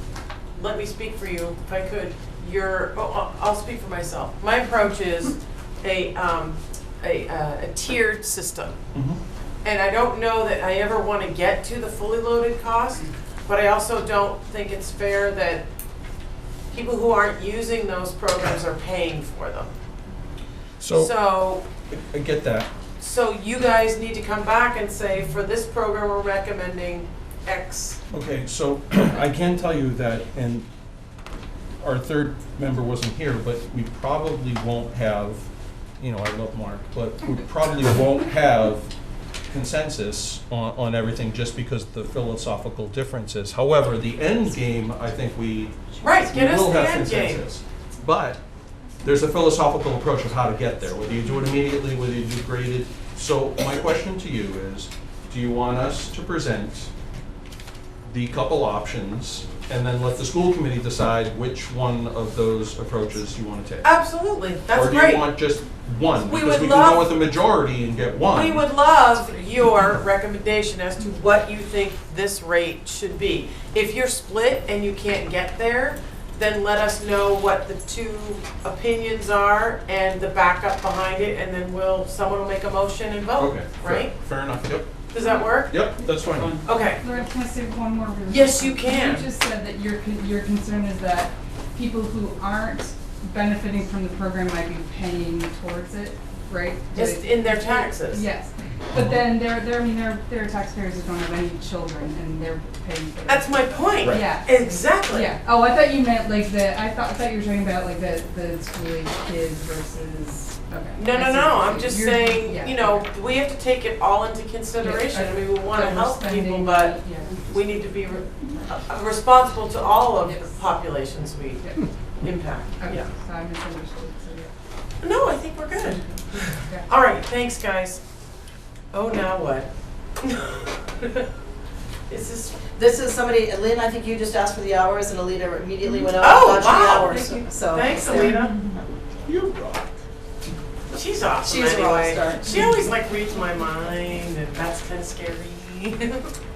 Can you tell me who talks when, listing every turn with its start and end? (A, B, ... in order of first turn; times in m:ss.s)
0:00.5-0:08.8 A
0:08.9-0:09.2 B
0:09.6-0:15.6 A
0:16.7-0:19.7 A
0:20.8-0:21.1 B
0:20.9-0:21.6 A
0:21.9-0:22.7 B
0:23.0-0:28.0 A
0:28.1-0:30.7 B
0:31.8-0:38.9 B
0:39.5-0:48.4 B
0:46.0-0:47.5 A
0:49.0-0:56.9 B
0:58.0-1:03.9 B
1:03.8-1:05.4 A
1:04.7-1:08.6 B
1:06.2-1:07.1 A
1:08.3-1:24.1 A
1:23.4-1:24.9 B
1:25.1-1:25.9 A
1:25.2-1:25.5 C
1:25.6-1:26.6 B
1:26.3-1:53.0 C
1:26.6-1:27.2 A
1:28.3-1:29.3 A
1:36.9-1:38.3 A
1:38.9-1:39.2 B
1:43.3-1:45.3 A
1:50.9-2:03.1 A
1:54.8-1:57.6 C
2:00.2-2:00.7 C
2:01.6-2:01.8 C
2:02.8-2:04.5 C
2:05.0-2:08.0 A
2:05.7-2:06.9 C
2:08.9-2:09.7 A
2:10.2-2:11.3 A
2:12.1-2:12.6 A
2:12.7-2:18.5 D
2:16.2-2:18.6 A
2:19.2-2:19.8 B
2:20.9-2:26.3 A
2:21.4-2:22.8 D